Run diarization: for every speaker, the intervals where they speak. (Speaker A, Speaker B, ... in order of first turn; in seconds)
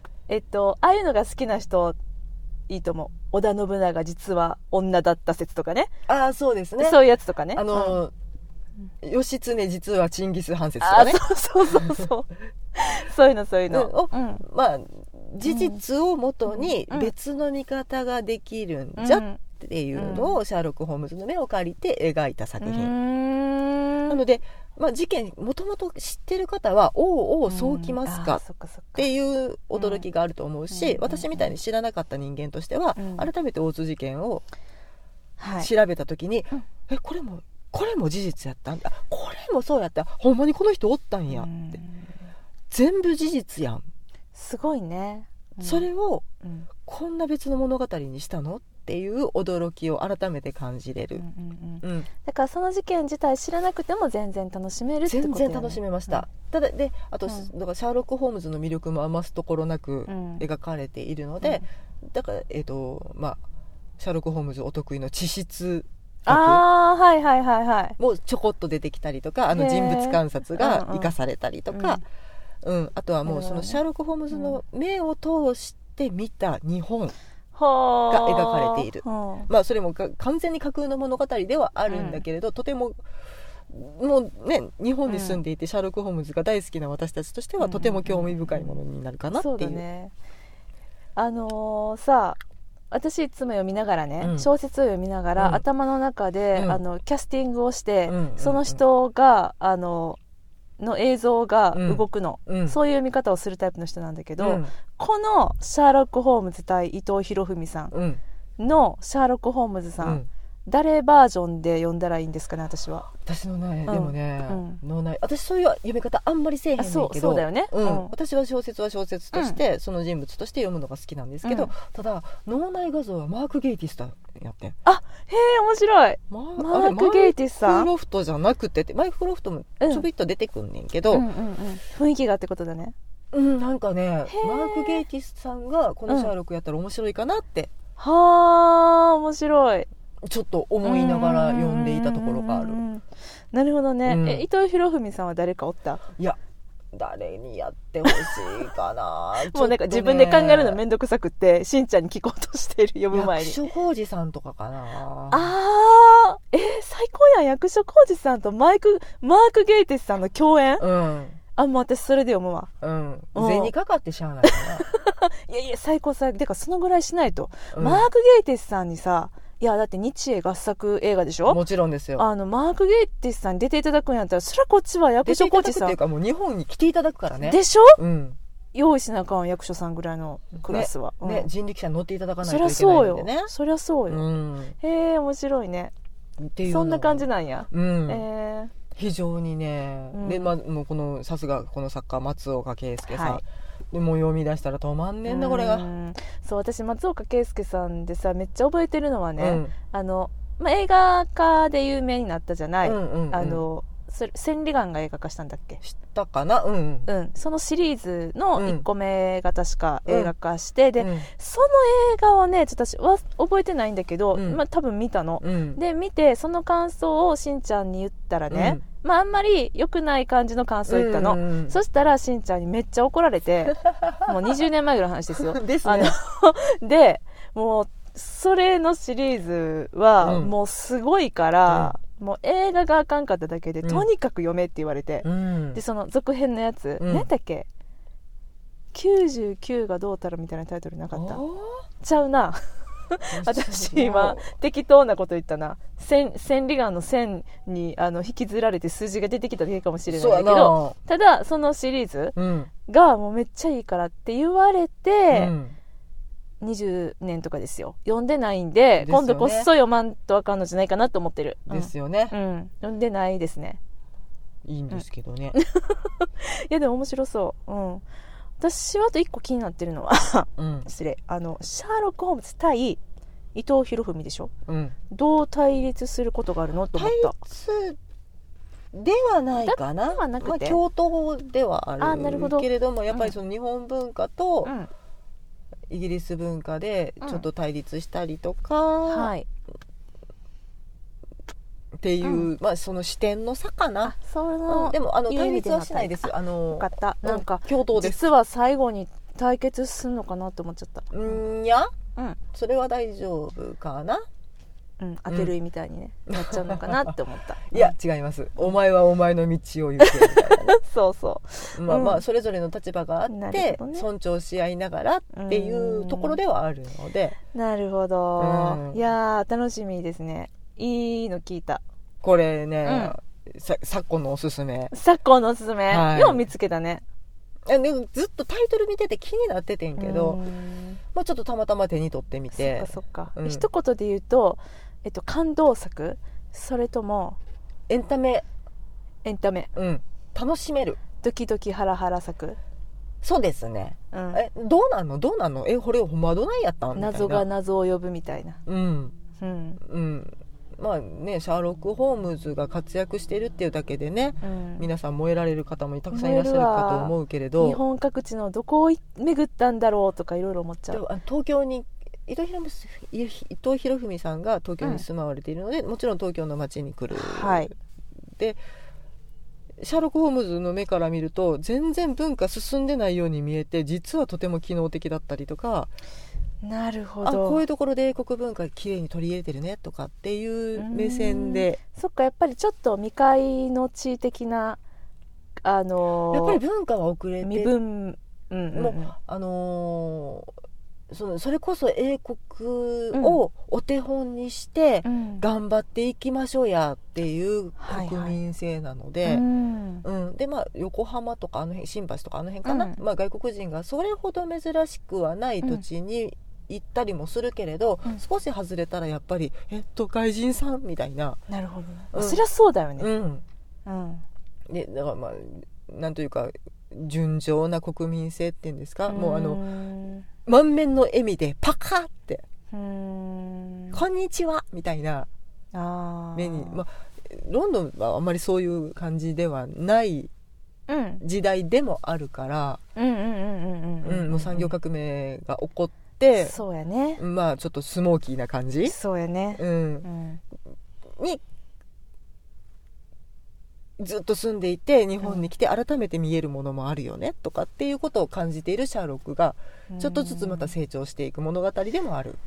Speaker A: 0.3-2.0, 2.7-5.9, 6.8-8.0, 10.8-14.4, 15.4-15.8, 16.5-17.1, 19.0-19.4, 19.9-20.4, 22.6-24.2, 27.5-29.1, 29.8-30.0, 30.7-31.5, 33.0-33.3, 35.4-35.7, 41.3-42.1, 44.4-45.9, 46.4-46.7, 51.2-56.2, 60.1-60.4, 66.3-68.0, 69.5-71.1, 71.7-72.0, 73.2-73.8, 74.3-74.6, 77.5-79.5, 81.9-82.2, 85.1-85.4, 87.6-88.8, 89.3-90.1, 91.2-92.4, 92.9-100.2, 100.8-107.9, 108.6-113.1, 113.9-114.8, 116.8-118.1, 121.5-121.7, 124.8-127.9, 129.8-130.1, 131.1-132.9, 134.3-135.1, 138.0-139.9, 140.8-146.0, 148.1-148.4, 149.4-153.6, 155.3-160.8, 161.6-162.7, 163.3-163.7, 164.4-171.6, 172.2-176.0, 177.4-178.0, 178.7-181.5, 182.4-184.2, 184.8-185.9, 186.7-188.7, 190.1-190.5, 193.1-193.4, 195.3-205.8, 207.1-237.7, 238.9-241.4, 242.0-252.3, 252.9-255.5, 256.6-263.8, 265.5-268.0, 268.6-273.0, 273.6-274.5, 275.1-277.4, 279.6-280.8, 282.0-283.4, 284.6-284.9, 289.1-289.5, 292.2-292.5, 294.0-301.1, 305.0-307.9, 310.0-312.2, 313.3-314.1, 315.3-316.4, 317.5-321.8, 322.9-323.2, 324.9-327.0, 330.0-331.0, 332.5-337.4, 339.2-339.7, 341.2-342.6, 344.1-344.4, 347.0-348.6, 349.4-349.8, 354.4-354.9, 356.1-361.0, 367.1-367.7, 376.6-377.6, 380.8-384.8, 385.6-386.6, 387.4-389.1, 393.1-393.4, 395.1-395.4, 397.8-398.4, 399.2-400.1, 402.6-403.0, 411.5-413.1, 413.9-414.2, 419.1-420.3, 422.7-424.0, 425.7-426.8, 430.9-431.2, 433.0-434.7, 436.4-437.2, 438.9-440.4, 445.2-445.5, 449.9-450.7
Speaker B: 6.1-7.0, 7.5-8.1, 9.0-11.2, 13.7-22.9, 24.1-28.4, 29.0-34.4, 35.6-41.6, 42.7-43.8, 45.6-46.3, 46.9-51.2, 51.8-52.1, 55.1-63.4, 64.0-66.6, 68.0-72.0, 72.6-77.1, 78.1-83.0, 83.7-89.8, 94.2-94.5, 95.4-95.6, 96.5-96.8, 98.1-98.8, 101.7-102.8, 104.4-104.7, 107.9-108.2, 110.0-110.3, 113.2-124.8, 126.3-131.3, 133.3-137.7, 140.2-142.8, 144.1-144.4, 146.9-150.8, 153.1-155.5, 160.8-161.4, 162.8-164.8, 167.7-168.1, 171.5-172.3, 175.2-178.4, 180.7-183.5, 184.1-184.8, 186.4-188.2, 188.9-195.9, 199.4-199.7, 202.8-203.6, 205.8-207.1, 208.6-208.8, 210.1-210.3, 211.0-211.3, 214.3-214.6, 215.4-215.8, 218.5-218.8, 220.9-221.8, 223.8-224.3, 225.3-226.2, 230.2-230.5, 231.7-231.9, 235.2-235.8, 237.0-237.3, 241.1-241.9, 243.3-244.5, 250.1-251.0, 252.3-252.7, 255.3-255.8, 259.0-259.7, 261.7-262.3, 264.6-265.6, 270.6-270.9, 274.7-274.9, 276.9-278.0, 278.9-284.7, 285.9-289.3, 292.0-294.1, 294.7-298.2, 301.1-301.9, 302.5-304.2, 306.3-307.1, 307.7-310.8, 311.7-317.4, 318.4-319.0, 322.2-324.9, 325.9-326.4, 327.7-330.4, 331.1-333.7, 337.9-338.4, 339.8-341.0, 343.2-347.4, 348.7-349.1, 349.8-357.8, 360.9-367.7, 369.8-375.9, 377.2-381.8, 386.3-387.7, 388.7-390.5, 391.1-399.4, 400.0-411.4, 412.1-412.4, 413.0-413.4, 414.7-419.6, 420.5-422.4, 423.9-425.3, 426.4-430.3, 431.2-432.8, 434.0-436.6, 437.2-439.0, 439.6-440.1, 444.0-452.4